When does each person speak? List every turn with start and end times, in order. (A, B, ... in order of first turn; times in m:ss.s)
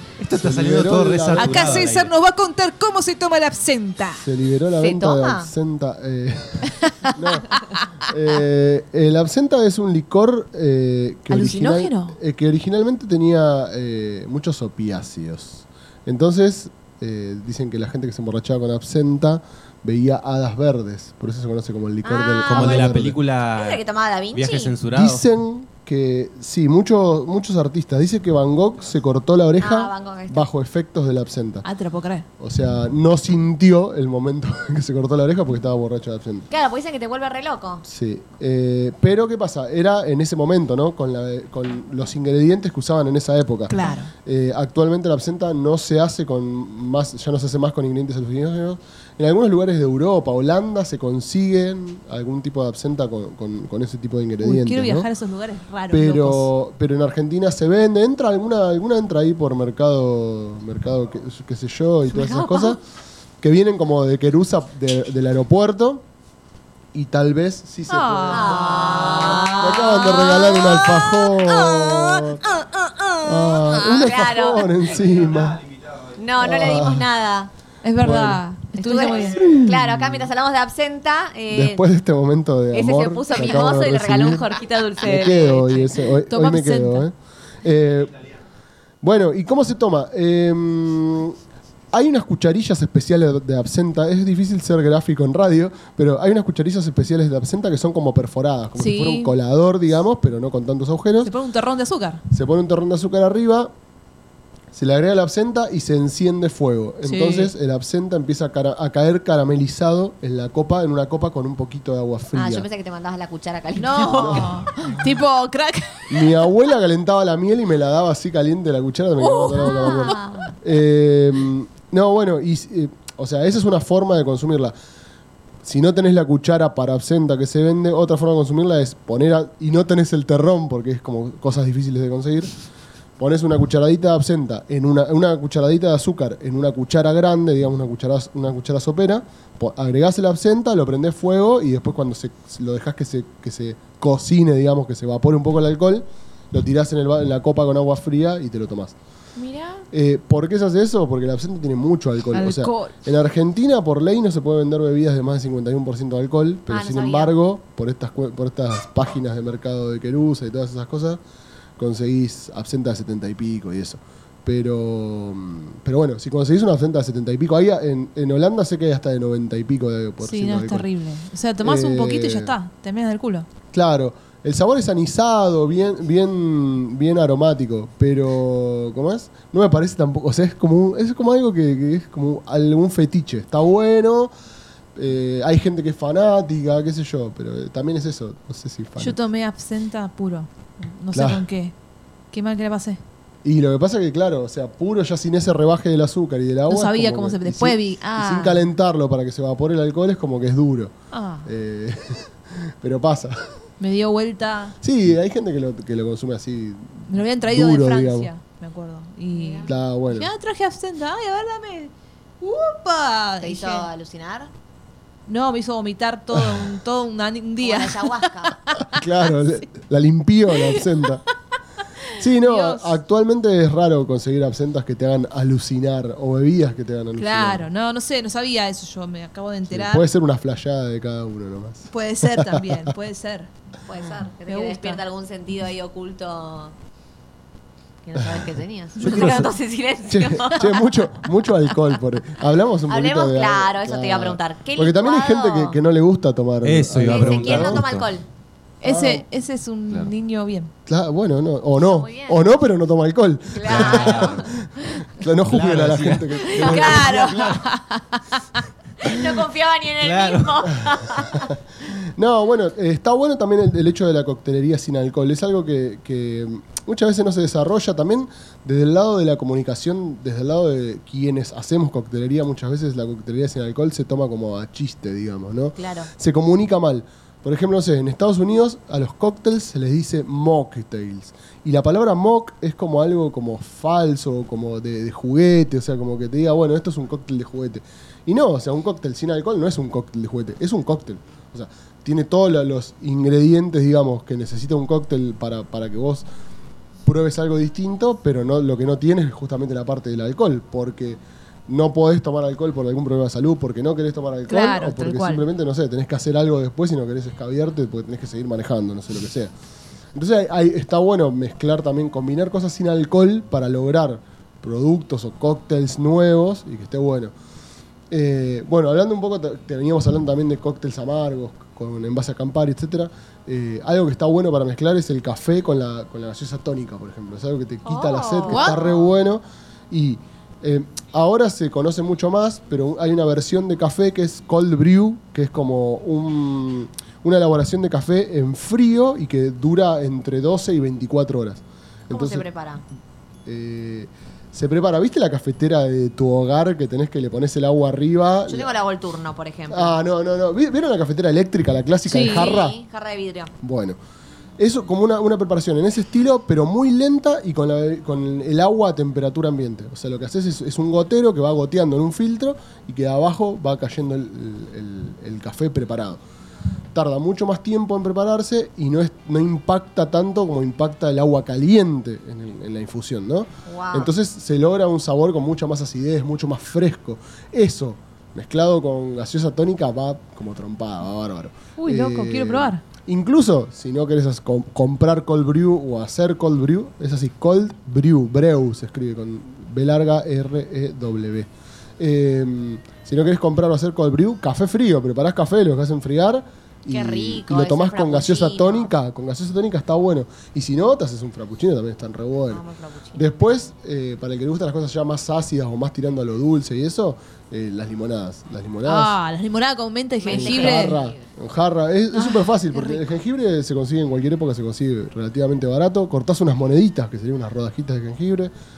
0:00.2-0:02.1 A
0:00.3-0:01.9 B
0:01.3-0:04.2 C
0:04.2-0:23.2 B
0:04.8-0:05.5 D
0:06.8-0:07.8 C
0:11.3-0:12.2 C
0:22.0-0:24.8 D
0:22.4-0:25.2 A
0:24.9-0:31.6 B
0:29.6-0:30.5 D
0:31.6-0:32.2 C
0:32.4-0:36.4 B
0:36.5-0:37.8 D
0:37.8-0:55.1 B
0:43.7-0:44.1 C
0:54.4-0:56.5 C
0:55.9-1:02.8 B
1:02.1-1:02.8 D
1:03.4-1:06.0 B
1:06.9-1:12.4 B
1:07.9-1:09.8 C
1:08.3-1:14.7 D
1:13.2-1:15.6 B
1:16.1-1:17.5 D
1:16.4-1:17.1 B
1:17.8-1:19.4 C
1:18.0-1:18.4 B
1:18.7-1:21.8 D
1:19.2-1:20.3 B
1:21.5-1:28.2 B
1:22.7-1:26.0 D
1:26.3-1:27.0 C
1:29.0-1:31.4 B
1:31.9-1:41.3 B
1:38.8-1:39.3 C
1:41.2-1:42.2 C
1:42.3-1:43.7 B
1:44.7-1:52.7 B
1:47.0-1:47.5 C
1:52.3-1:54.7 D
1:53.8-1:56.4 C
1:54.1-1:54.6 B
1:56.1-2:04.7 B
1:59.2-2:00.2 C
1:59.7-2:00.5 D
2:05.6-2:12.5 B
2:13.2-2:28.9 B
2:29.4-2:29.8 C
2:29.9-2:41.2 B
2:32.3-2:32.9 C
2:36.7-2:37.3 D
2:41.8-2:50.9 B
2:50.2-2:53.5 C
2:51.6-2:52.5 B
2:53.7-3:04.3 B
3:04.9-3:09.2 B
3:09.0-3:11.7 C
3:11.1-3:11.4 B
3:12.3-3:13.0 C
3:13.4-3:20.9 B
3:16.7-3:18.6 C
3:21.1-3:21.5 C
3:21.4-3:23.5 B
3:23.8-3:24.8 C
3:24.8-3:28.3 B
3:27.1-3:33.8 C
3:29.3-3:29.7 D
3:29.6-3:30.3 B
3:33.4-3:34.5 D
3:35.3-3:39.0 C
3:36.3-3:36.7 B
3:37.6-3:38.6 D
3:38.9-3:41.2 B
3:40.5-3:41.3 C
3:42.0-3:43.0 C
3:42.2-3:47.7 B
3:47.2-3:50.0 C
3:49.7-3:52.8 B
3:51.9-3:53.5 C
3:53.8-3:56.7 D
3:54.4-3:55.0 C
3:58.0-4:00.9 D
3:59.0-3:59.5 B
3:59.0-3:59.5 A
4:00.1-4:07.8 B
4:02.9-4:05.8 D
4:06.6-4:08.1 A
4:07.0-4:08.2 D
4:08.8-4:10.7 C
4:08.8-4:09.2 B
4:10.8-4:17.4 B
4:11.8-4:12.4 D
4:13.5-4:14.5 D
4:13.7-4:14.5 A
4:15.4-4:17.6 A
4:16.4-4:18.6 C
4:16.6-4:17.3 D
4:19.0-4:21.5 D
4:20.0-4:20.7 A
4:21.3-4:56.2 B
4:35.8-4:36.1 D
4:57.0-5:09.5 B
5:04.5-5:05.4 C
5:10.1-5:17.3 B
5:18.1-5:42.4 B
5:27.8-5:28.9 D
5:28.5-5:28.8 C
5:42.1-5:42.8 D
5:43.4-5:48.7 B
5:48.5-5:50.0 D
5:49.7-5:52.8 B
5:52.1-5:52.5 C
5:52.2-5:53.5 D
5:53.6-5:54.0 B
5:54.6-6:06.2 B
6:06.9-6:42.6 B
6:13.6-6:14.1 D
6:21.8-6:22.8 C
6:36.9-6:38.9 D
6:42.5-6:43.3 D
6:43.1-6:49.2 B
6:48.8-6:51.0 C
6:50.2-6:51.2 D
6:50.3-6:58.5 B
6:52.1-6:53.0 C